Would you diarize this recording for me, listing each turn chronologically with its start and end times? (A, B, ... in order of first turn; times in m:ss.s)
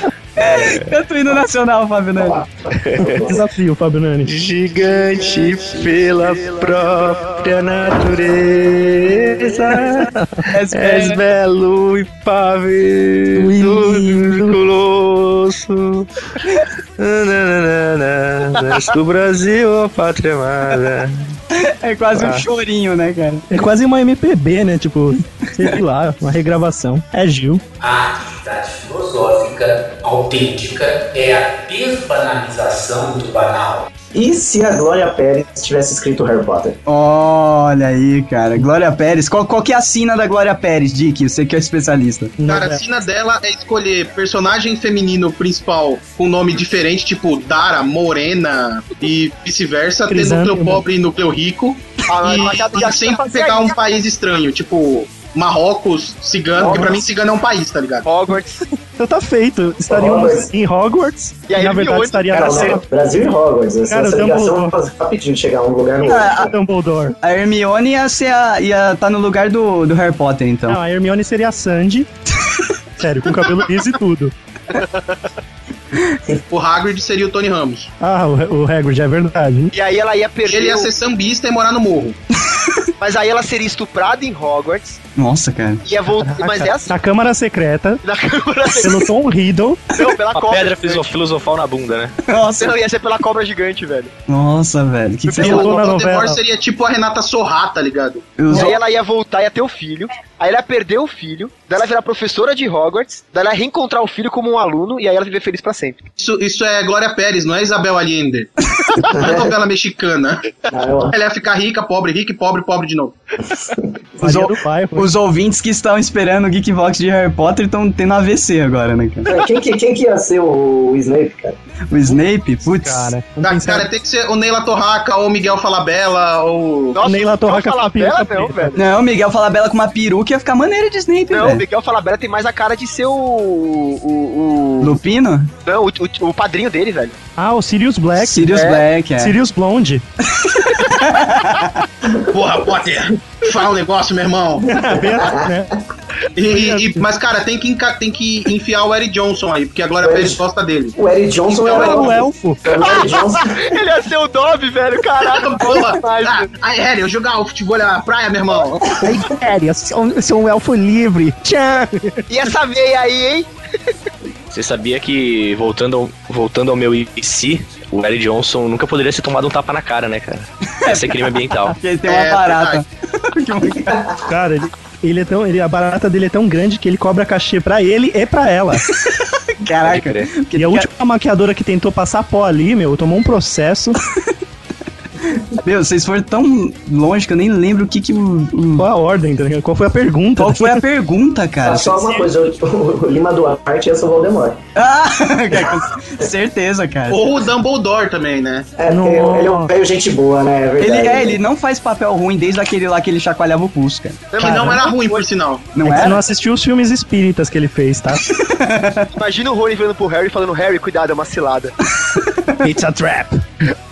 0:00.4-0:02.5 A
0:00.4-0:01.0 B
0:02.3-0:03.4 C
0:02.8-0:03.2 B
0:03.1-0:04.4 D
0:04.3-0:10.1 B
0:09.6-0:10.5 D
0:10.5-0:11.2 A
0:10.7-0:16.1 B
0:13.4-0:14.6 D
0:17.0-0:21.4 B
0:21.5-0:23.5 A
0:22.2-0:22.4 D
0:23.5-0:27.6 D
0:27.8-0:33.9 E
0:34.1-0:36.8 C
0:36.9-0:42.3 A
0:42.4-0:42.8 D
0:42.5-0:58.1 F
0:50.1-0:50.8 D
0:52.1-0:53.8 G
0:56.7-0:57.0 D
0:58.0-0:58.6 G
0:58.7-1:02.8 D
0:59.9-1:00.5 C
1:01.5-1:02.8 G
1:02.3-1:06.5 C
1:03.9-1:04.7 D
1:06.0-1:06.5 A
1:06.2-1:07.2 D
1:07.2-1:10.8 A
1:10.7-1:12.1 D
1:13.0-1:14.3 D
1:16.5-1:17.9 F
1:18.0-1:19.7 D
1:19.7-1:20.9 G
1:20.5-1:22.2 F
1:23.0-1:25.0 G
1:25.2-1:25.8 A
1:25.8-1:26.9 G
1:26.1-1:28.0 D
1:28.0-1:29.0 G
1:28.8-1:29.8 D
1:29.9-1:31.1 G
1:30.3-1:32.2 B
1:32.3-1:32.8 A
1:32.6-1:34.1 G
1:34.3-1:35.7 A
1:35.3-1:35.6 G
1:35.4-1:36.4 D
1:35.4-1:38.3 F
1:38.4-1:38.8 A
1:38.5-1:46.0 G
1:46.2-1:53.2 F
1:49.1-1:49.5 C
1:50.7-1:51.2 C
1:54.2-1:59.3 A
1:54.2-1:55.1 D
1:59.3-2:01.6 C
2:01.9-2:03.1 A
2:02.1-2:03.9 D
2:03.4-2:07.0 F
2:06.9-2:08.8 G
2:07.0-2:08.8 D
2:08.8-2:11.6 A
2:11.3-2:15.0 G
2:14.8-2:15.5 A
2:15.7-2:17.2 G
2:17.4-2:18.6 D
2:18.2-2:19.4 A
2:18.5-2:18.9 G
2:19.2-2:20.1 D
2:20.3-2:21.8 A
2:22.0-2:22.4 C
2:22.3-2:24.9 F
2:24.7-2:25.8 D
2:24.8-2:25.5 C
2:26.4-2:31.0 F
2:26.5-2:27.1 D
2:30.0-2:30.4 C
2:31.0-2:33.7 C
2:31.5-2:32.1 F
2:31.8-2:32.6 D
2:32.8-2:36.5 G
2:35.2-2:39.0 F
2:39.0-2:42.2 D
2:42.3-2:43.5 G
2:44.5-2:51.8 B
2:50.8-2:54.0 A
2:52.0-2:52.8 F
2:53.9-2:54.2 C
2:54.2-2:58.8 D
2:58.9-3:00.9 A
2:59.8-3:00.3 B
3:00.6-3:04.0 D
3:05.2-3:08.9 A
3:08.8-3:10.8 D
3:10.4-3:12.0 A
3:11.6-3:14.6 C
3:14.8-3:17.2 A
3:17.1-3:18.7 F
3:18.8-3:21.4 C
3:18.9-3:19.7 D
3:20.8-3:24.2 A
3:24.3-3:25.2 G
3:24.4-3:25.7 F
3:24.4-3:24.8 D
3:25.8-3:26.2 A
3:25.8-3:28.2 D
3:28.3-3:29.1 A
3:29.1-3:31.7 G
3:32.2-3:32.6 A
3:32.6-3:33.4 D